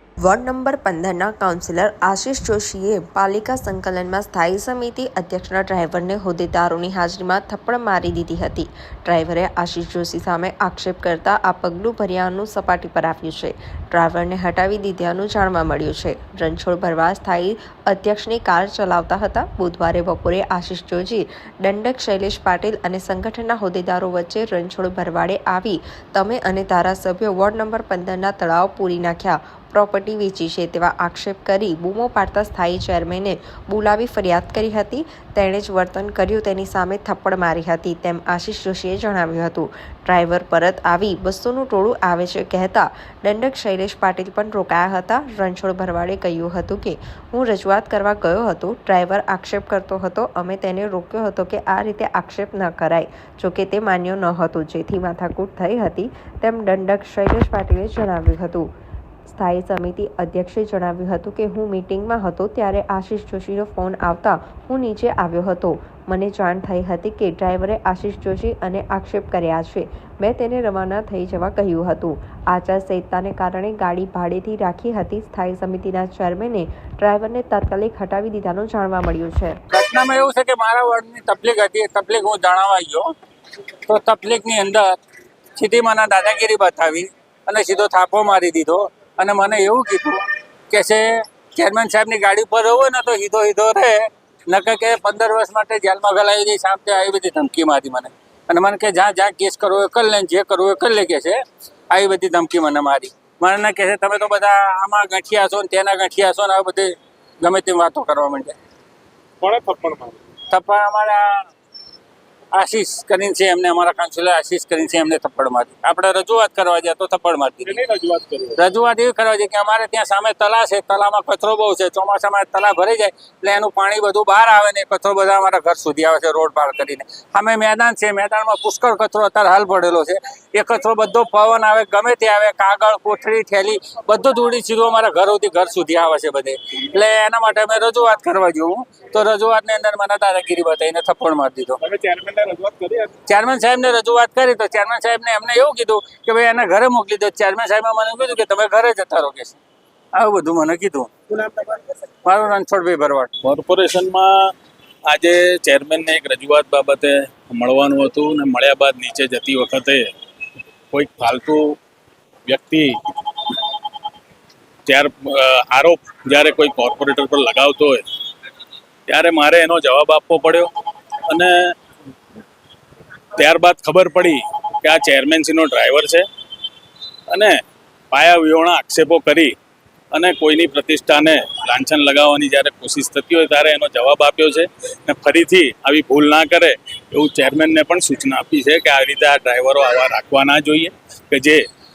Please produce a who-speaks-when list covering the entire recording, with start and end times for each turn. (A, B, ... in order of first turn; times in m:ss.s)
0:00.2-0:58.7 A
0:59.3-1:19.6 A
1:19.7-1:23.1 B
1:23.9-1:25.0 B
1:25.6-1:41.4 B
1:41.9-1:48.5 B
1:49.4-1:50.2 C
1:50.5-1:51.5 B
1:52.5-1:57.8 B
1:57.6-1:58.6 C
1:58.6-2:21.8 B
2:21.8-2:23.1 C
2:23.3-2:29.6 B
2:30.2-2:31.6 B
2:32.2-2:33.3 B
2:33.4-2:34.5 D
2:35.1-2:40.0 D
2:40.9-2:41.8 D
2:42.5-2:43.8 D
2:44.8-2:48.0 D
2:49.1-2:50.7 D
2:51.2-2:51.8 D
2:53.3-2:56.3 D
2:57.3-2:57.6 D
2:58.1-2:59.6 D
3:00.1-3:11.6 D